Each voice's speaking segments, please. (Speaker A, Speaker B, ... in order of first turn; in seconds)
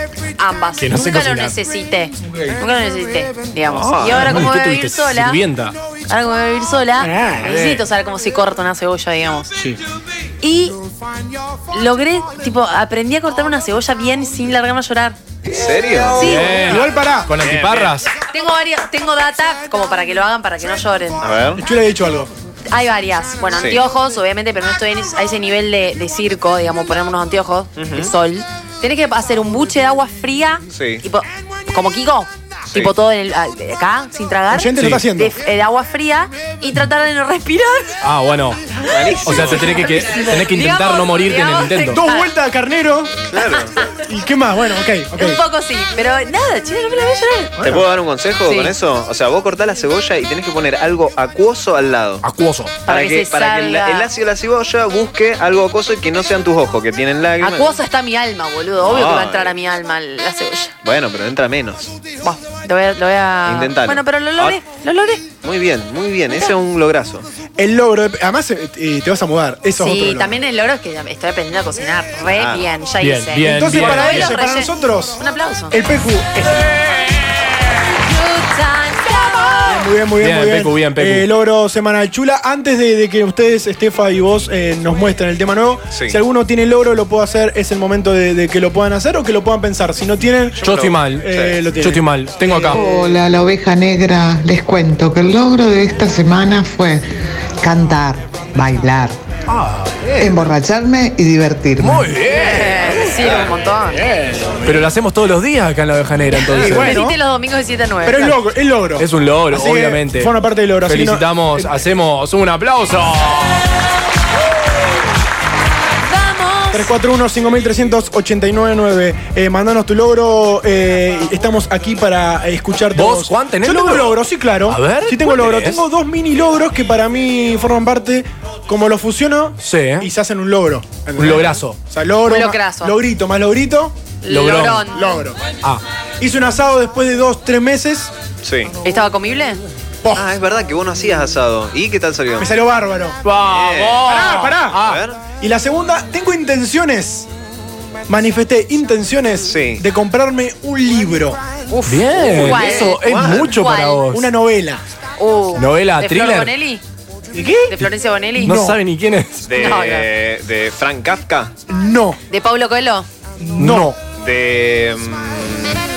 Speaker A: 0.4-5.4, 6.1-9.5, 10.4-10.8, 11.7-15.2, 16.1-16.7, 18.3-21.2, 22.7-38.0, 38.9-42.3, 43.5-43.9, 45.1-47.5, 48.5-48.7, 52.9-54.1, 57.4-60.7, 62.2-65.3, 69.8-75.7, 78.0-79.9, 102.3-104.0, 106.3-108.4, 116.0-116.9, 132.3-133.0, 134.2-135.0, 138.8-139.6, 151.7-154.0, 155.2-156.8, 157.7-158.6, 159.6-160.1, 162.3-163.1
Speaker B: 0.8-1.6, 4.1-5.8, 16.2-18.1, 38.0-38.6, 39.2-42.0, 52.2-52.8, 73.0-74.4, 80.2-81.3, 90.6-92.9, 99.5-100.0, 101.8-103.2, 104.6-107.0, 109.0-110.3, 110.9-113.7, 123.0-125.8, 129.6-130.1, 131.2-131.8, 134.3-134.9, 143.2-145.0, 151.9-154.3, 155.6-156.5, 158.4-159.4, 163.6-163.9
Speaker C: 3.7-4.3, 15.5-16.3, 21.2-21.6, 23.6-23.8, 27.8-28.1, 30.7-31.0, 38.9-40.0, 43.3-43.8, 47.6-52.2, 52.9-57.7, 58.8-59.5, 60.8-61.9, 63.5-64.6, 65.4-67.3, 72.3-72.7, 85.9-86.2, 90.6-91.6, 100.0-100.4, 103.2-103.5, 138.4-138.7, 140.2-142.5, 143.5-144.2, 144.8-145.2, 149.4-149.8, 152.3-153.5, 159.4-161.5, 164.2-165.8
Speaker D: 7.0-7.7, 16.6-17.3, 21.6-22.3, 34.5-35.4, 41.9-43.2, 44.0-45.4, 47.6-47.8, 67.6-70.3, 73.4-76.8, 79.7-92.8, 104.1-104.8, 106.5-107.2, 108.0-111.8, 116.7-134.0, 134.9-135.4, 136.2-138.1, 140.0-140.3, 142.4-143.2, 144.1-144.8, 145.4-147.3, 148.1-151.4, 154.1-154.8, 157.3-157.7, 158.5-158.8, 161.7-162.2, 163.4-164.0
Speaker E: 92.7-97.1, 97.6-99.2, 100.2-102.2